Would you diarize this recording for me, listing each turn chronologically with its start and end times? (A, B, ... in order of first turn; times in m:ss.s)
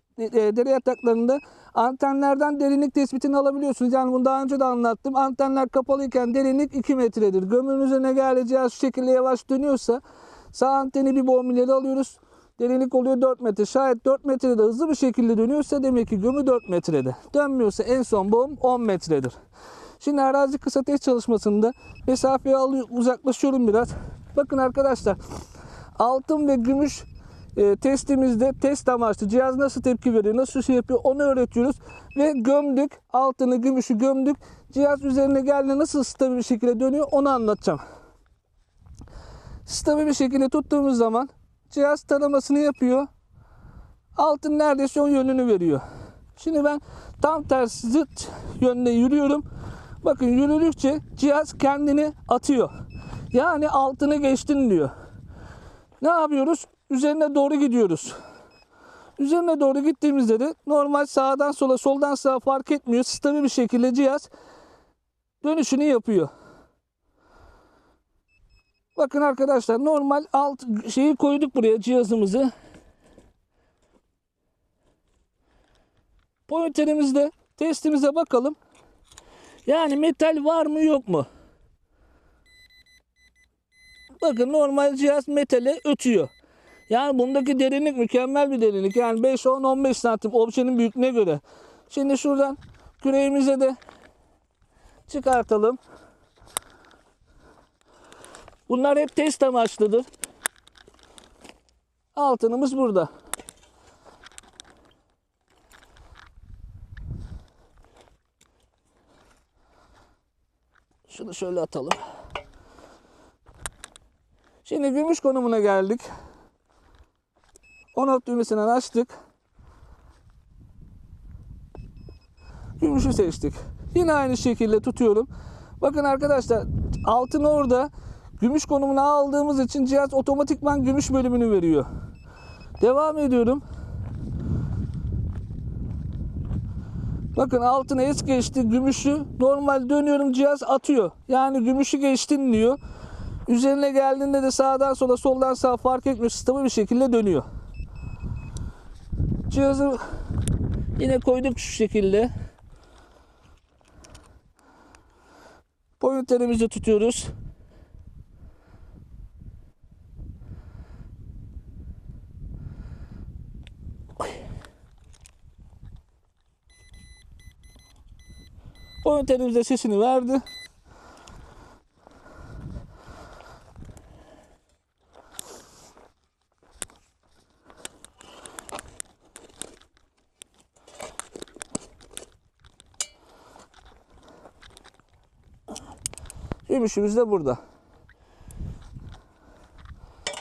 0:00.2-0:19.4 A
0:20.0-0:25.2 A
0:26.0-0:37.8 A
0:39.6-0:43.1 A
0:44.2-0:45.8 A
0:46.4-0:49.4 A
0:50.0-0:52.7 A
0:53.3-0:54.9 A
0:56.0-0:58.2 A
0:59.2-1:04.3 A
1:05.4-1:06.3 A
1:09.0-1:12.5 A
1:16.5-1:18.6 A
1:19.6-1:21.3 A
1:24.2-1:26.3 A
1:26.9-1:33.7 A
1:35.1-1:35.8 A
1:38.7-1:40.0 A
1:42.1-1:43.1 A
1:51.1-1:52.0 A
1:54.6-1:56.1 A
1:57.9-1:59.1 A
2:02.8-2:05.3 A
2:05.8-2:11.9 A
2:12.8-2:13.6 A
2:17.3-2:22.8 A
2:23.5-2:27.4 A
2:29.5-2:30.0 A
2:31.0-2:32.3 A
2:36.0-2:37.3 A
2:49.0-2:50.4 A
3:06.7-3:07.6 A